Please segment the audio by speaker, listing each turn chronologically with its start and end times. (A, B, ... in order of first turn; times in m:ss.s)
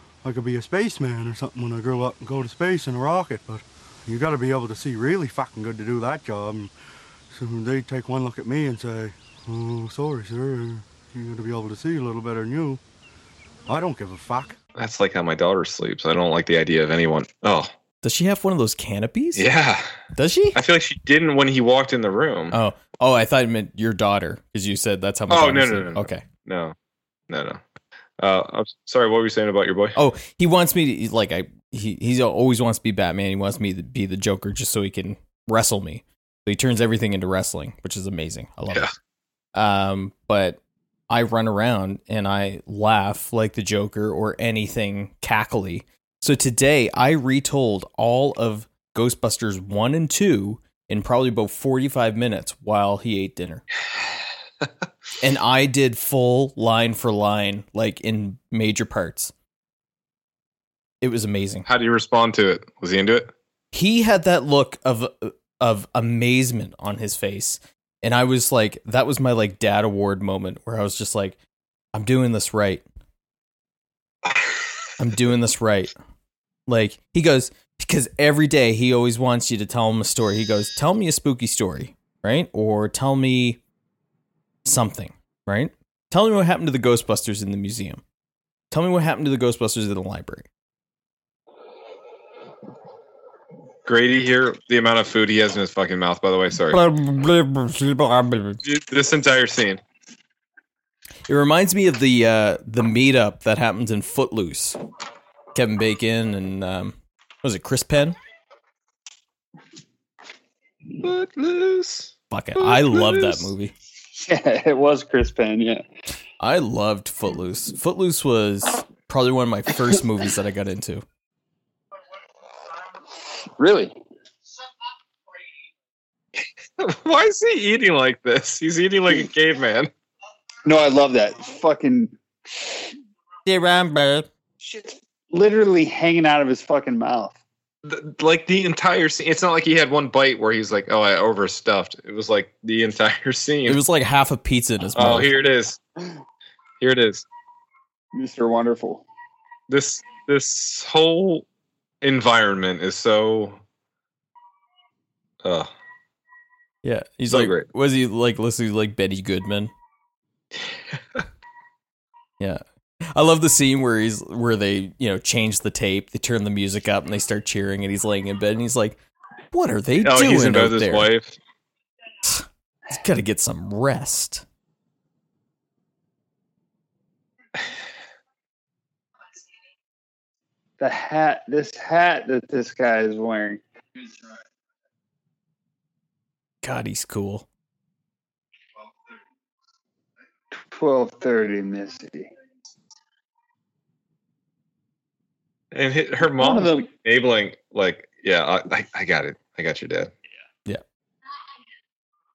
0:00.2-0:06.7 A
0:07.3-0:12.8 A
0:13.7-0:14.6 A
0:14.8-0:17.7 B
0:18.0-0:19.4 C
0:19.3-0:19.9 B
0:20.2-0:20.6 C
0:20.5-0:22.6 B
0:22.5-0:26.2 C
0:25.3-0:26.7 B
0:27.3-0:27.6 B
0:28.2-0:30.0 B
0:30.0-0:38.9 C
0:39.5-0:53.6 C
0:55.2-0:59.3 C
1:01.0-1:01.7 C
1:01.6-1:03.3 B
1:03.7-1:11.4 C
1:11.9-1:12.8 C
1:15.0-1:15.9 C
1:16.7-1:23.6 C
1:24.6-1:28.0 C
1:28.7-1:30.5 C
1:33.8-1:36.8 B
1:36.7-1:38.6 C
1:38.6-1:39.8 B
1:41.3-1:44.8 C
1:45.5-1:48.2 C
1:51.0-1:53.5 B
1:52.3-1:53.7 C
1:54.2-1:55.8 D
1:56.4-2:01.0 C
2:03.6-2:03.9 D
2:06.8-2:09.9 B
2:10.6-2:12.8 D
2:13.4-2:14.3 C
2:14.6-2:17.4 D
2:17.8-2:23.8 B
2:23.7-2:25.3 C
2:24.9-2:25.8 B
2:26.8-2:27.2 B
2:28.1-2:29.0 D
2:29.7-2:31.4 B
2:32.0-2:33.6 B
2:35.4-2:35.7 B
2:36.8-2:39.7 C
2:37.3-2:37.7 B
2:43.1-2:49.0 C
2:49.5-2:51.1 C
2:50.0-2:51.4 B
2:52.2-2:54.4 C
3:00.8-3:03.6 D
3:06.6-3:07.4 C
3:10.5-3:12.3 D
3:15.7-3:20.1 B
3:16.3-3:16.9 D